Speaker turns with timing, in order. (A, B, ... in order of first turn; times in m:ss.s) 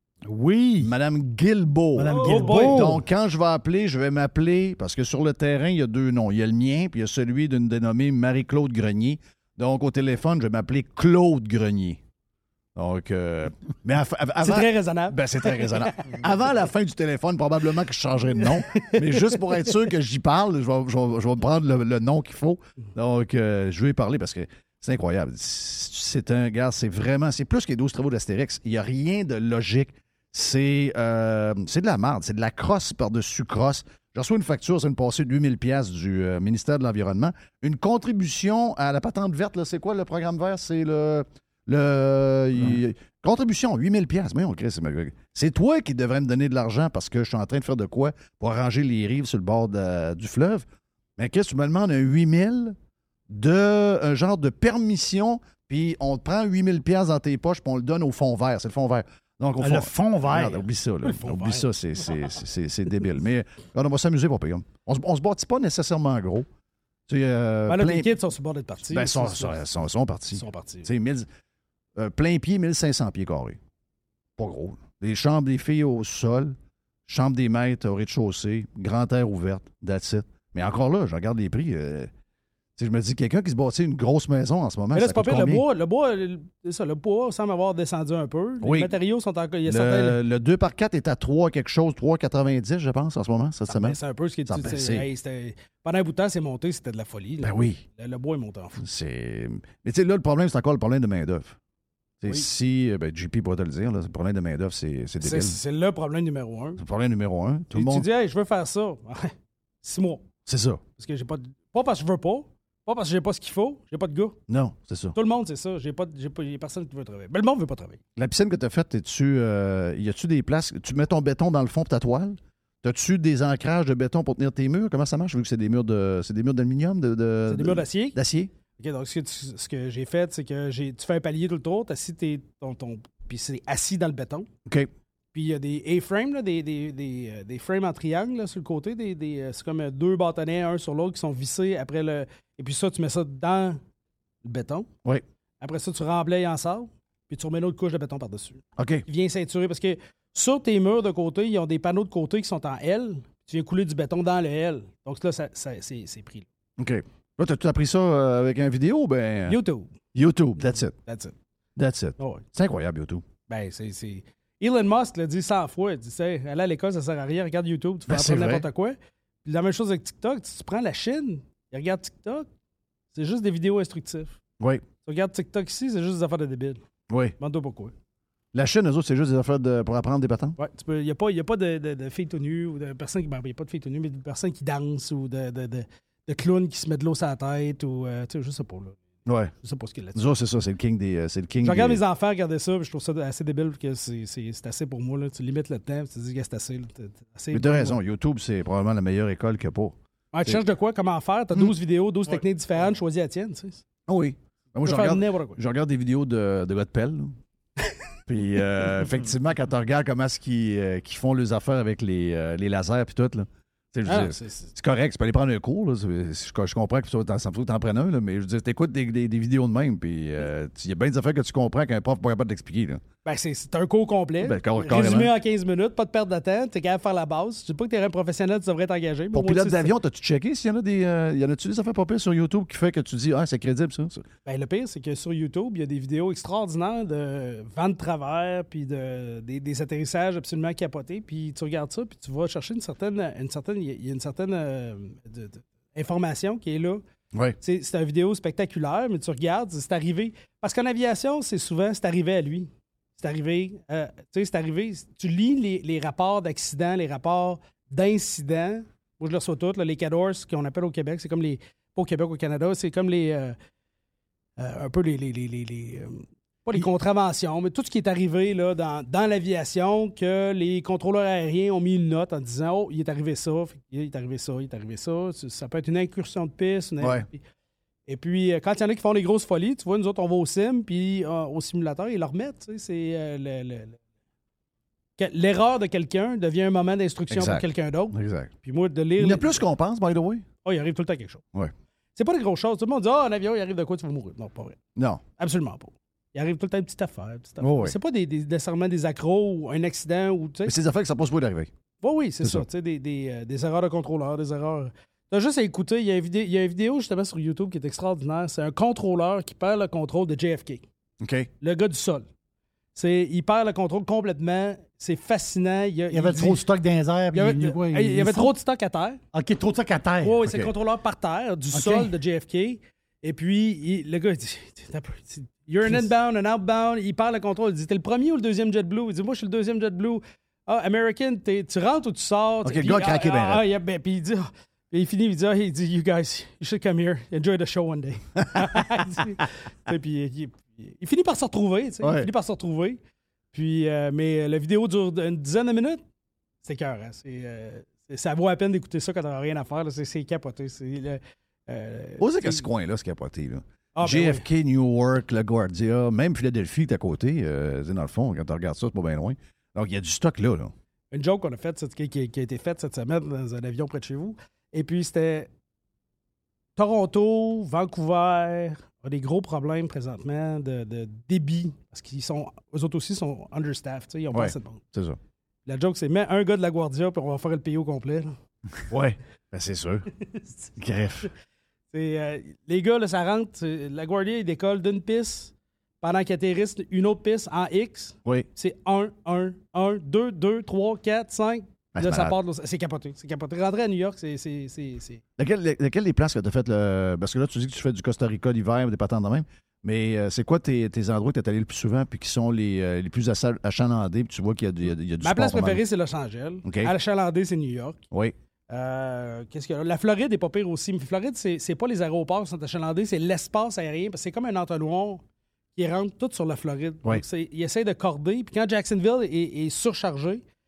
0:00.3-0:00.9 A
0:00.8-0:12.0 B
0:02.0-0:03.0 A
0:02.1-0:03.0 C
0:12.8-0:50.7 B
0:14.4-0:16.2 C
0:18.4-0:19.8 C
0:51.2-0:52.8 B
0:53.3-1:06.5 B
0:59.6-1:00.6 A
1:01.0-1:01.7 C
1:07.1-1:08.1 B
1:07.7-1:09.6 C
1:08.9-1:11.3 B
1:10.3-1:10.9 C
1:12.0-1:13.6 B
1:14.4-1:22.1 B
1:22.8-1:25.6 B
1:24.9-1:30.2 C
1:28.6-1:29.0 B
1:29.6-1:35.1 B
1:33.7-1:38.8 C
1:37.4-1:37.8 B
1:38.8-1:41.6 B
1:42.2-1:45.6 B
1:45.2-1:46.8 C
1:46.8-1:48.1 B
1:47.7-1:50.2 C
1:50.5-1:50.8 B
1:51.0-1:54.4 C
1:54.5-1:55.2 B
1:55.2-1:58.0 C
1:58.2-2:08.5 B
2:07.5-2:08.2 C
2:08.8-2:14.5 C
2:15.3-2:23.8 C
2:24.4-2:24.9 C
2:25.6-2:36.5 C
2:28.8-2:29.0 B
2:36.8-2:39.6 B
2:39.5-2:39.9 C
2:40.1-2:41.0 B
2:41.0-2:41.4 C
2:41.8-2:43.2 B
2:42.2-2:42.4 C
2:43.5-2:52.5 C
2:48.1-2:48.7 B
2:53.1-2:54.3 C
2:55.0-2:56.8 C
2:57.1-2:57.4 B
2:57.4-2:57.9 C
2:58.5-3:00.6 B
3:00.6-3:09.0 C
3:09.3-3:09.5 B
3:09.6-3:10.2 C
3:10.1-3:12.0 B
3:11.6-3:18.0 C
3:17.5-3:20.6 B
3:20.3-3:23.8 C
3:24.1-3:27.4 B
3:24.8-3:25.6 C
3:28.3-3:43.0 B
3:34.1-3:34.7 C
3:43.2-3:50.0 C
3:44.4-3:45.3 B
3:49.3-3:54.3 B
3:54.5-4:07.0 C
4:07.6-4:23.6 C
4:24.6-4:37.4 C
4:37.0-4:37.3 B
4:38.1-4:44.0 C
4:45.2-4:49.6 C
4:47.3-4:48.5 B
4:49.2-4:50.5 B
4:50.6-4:51.4 C
4:52.2-4:54.8 C
4:55.0-4:55.2 B
4:55.4-5:00.8 C
4:57.6-4:58.0 B
5:00.6-5:01.7 B
5:02.0-5:10.8 C
5:11.2-5:11.5 B
5:11.6-5:12.3 C
5:13.0-5:16.6 C
5:16.1-5:18.5 A
5:17.3-5:19.2 C
5:19.3-5:20.4 A
5:20.2-5:43.0 C
5:20.4-5:20.7 B
5:21.7-5:22.1 A
5:32.6-5:33.6 B
5:42.0-5:42.3 B
5:43.5-5:46.0 C
5:46.6-5:52.7 C
5:52.2-6:00.7 B
5:54.0-5:54.5 C
6:01.1-6:05.5 C
6:06.8-6:14.8 C
6:14.3-6:15.2 B
6:15.7-6:18.3 C
6:18.9-6:20.1 B
6:20.8-6:21.3 B
6:21.9-6:35.2 C
6:32.0-6:32.4 B
6:35.4-6:45.8 B
6:45.2-6:48.0 C
6:46.6-6:46.9 B
6:48.7-6:55.2 C
6:55.8-7:00.4 C